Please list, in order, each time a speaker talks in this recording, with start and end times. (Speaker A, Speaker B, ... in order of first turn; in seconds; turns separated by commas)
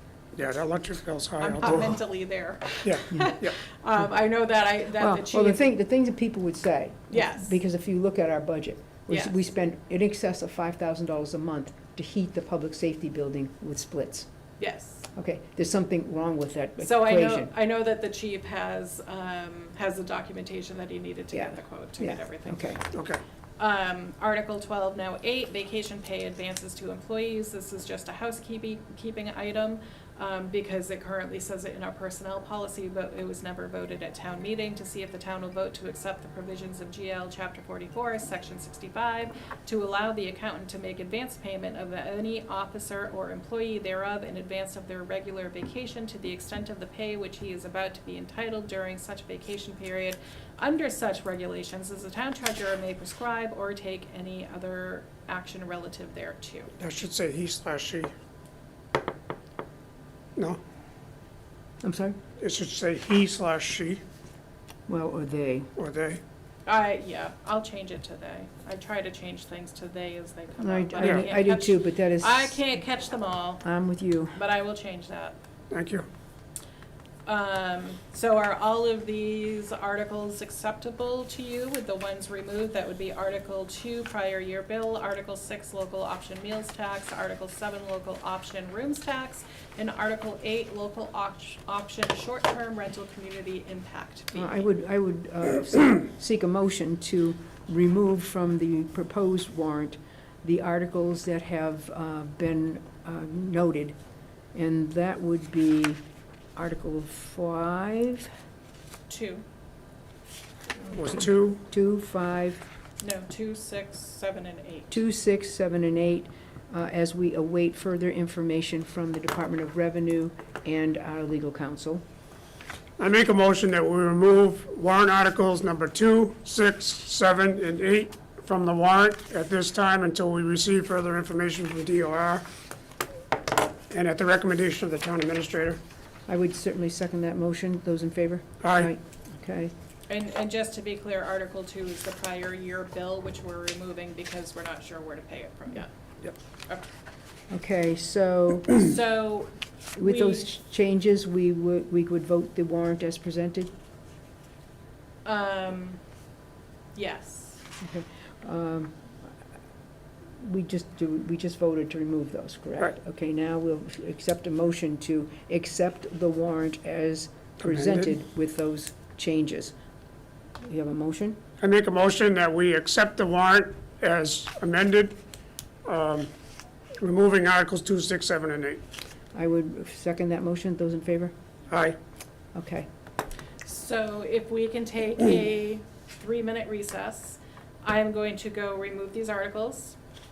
Speaker A: 0.3-2.0, Speaker B: 1.4-5.6, Speaker A: 2.8-3.5, Speaker C: 5.0-14.3, Speaker B: 7.1-7.5, Speaker B: 9.1-9.3, Speaker B: 14.6-15.1, Speaker C: 15.1-17.5, Speaker B: 16.8-22.8, Speaker C: 21.3-22.8, Speaker A: 22.9-23.2, Speaker B: 23.6-56.7, Speaker A: 56.8-58.1, Speaker C: 61.8-62.2, Speaker A: 62.4-64.0, Speaker C: 64.9-65.7, Speaker A: 65.8-66.2, Speaker B: 66.7-73.6, Speaker C: 70.6-72.8, Speaker C: 73.6-74.4, Speaker B: 74.3-75.4, Speaker A: 75.7-76.1, Speaker B: 77.2-94.7, Speaker C: 94.3-104.0, Speaker C: 104.5-106.0, Speaker C: 106.5-108.3, Speaker B: 109.1-109.4, Speaker A: 110.9-111.6, Speaker C: 111.1-112.6, Speaker B: 113.0-115.0, Speaker C: 114.9-122.0, Speaker A: 123.0-132.4, Speaker A: 133.9-135.8, Speaker C: 136.3-139.7, Speaker A: 138.6-138.9, Speaker B: 140.1-145.9, Speaker C: 147.5-148.8, Speaker B: 148.7-150.5, Speaker C: 149.9-153.7, Speaker B: 155.2-156.0, Speaker B: 156.9-157.6, Speaker C: 157.8-159.1, Speaker C: 160.4-169.7, Speaker A: 167.6-168.0, Speaker C: 170.6-171.4, Speaker A: 171.6-175.2, Speaker A: 175.8-176.3, Speaker A: 177.0-178.8, Speaker C: 179.3-181.3, Speaker A: 181.7-182.0, Speaker C: 182.5-182.9, Speaker B: 183.6-190.0